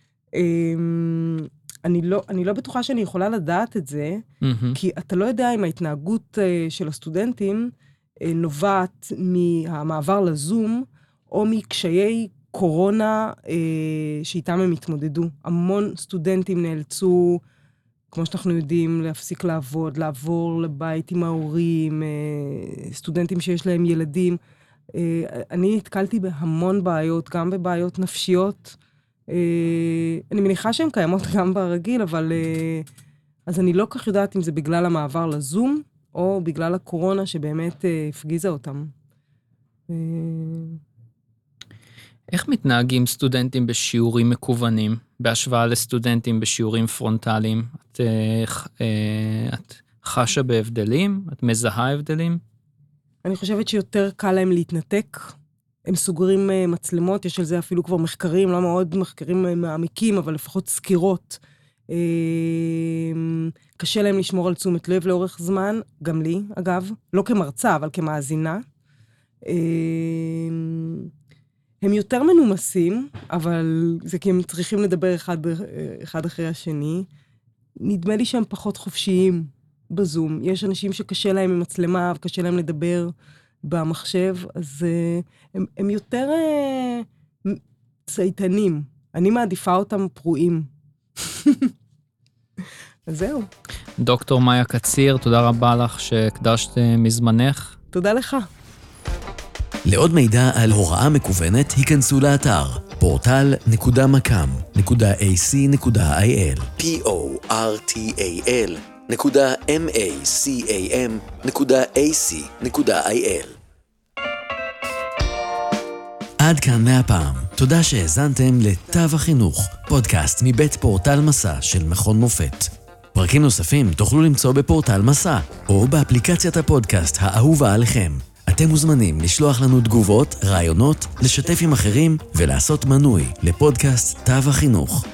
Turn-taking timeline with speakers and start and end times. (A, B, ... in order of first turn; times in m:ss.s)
0:00.3-0:04.2 A
0:04.4-0:04.8 B
0:04.7-0:17.4 A
0:18.1-0:24.4 A
0:24.9-0:28.8 A
0:29.3-0:32.9 A
0:33.5-0:38.9 A
0:39.9-0:40.8 A
0:42.3-0:52.4 B
0:53.2-0:55.3 A
0:55.9-1:08.6 A
1:09.4-1:11.1 A
1:11.8-1:17.1 A
1:17.8-1:31.7 A
1:33.1-1:33.5 A
1:34.0-1:37.8 B
1:37.9-1:38.5 A
1:39.9-1:43.5 C
1:44.3-1:47.4 C
1:49.9-1:50.2 C
1:50.9-1:51.7 C
1:56.7-1:57.6 C
1:58.4-2:02.1 C
2:03.2-2:05.1 C
2:05.7-2:14.9 C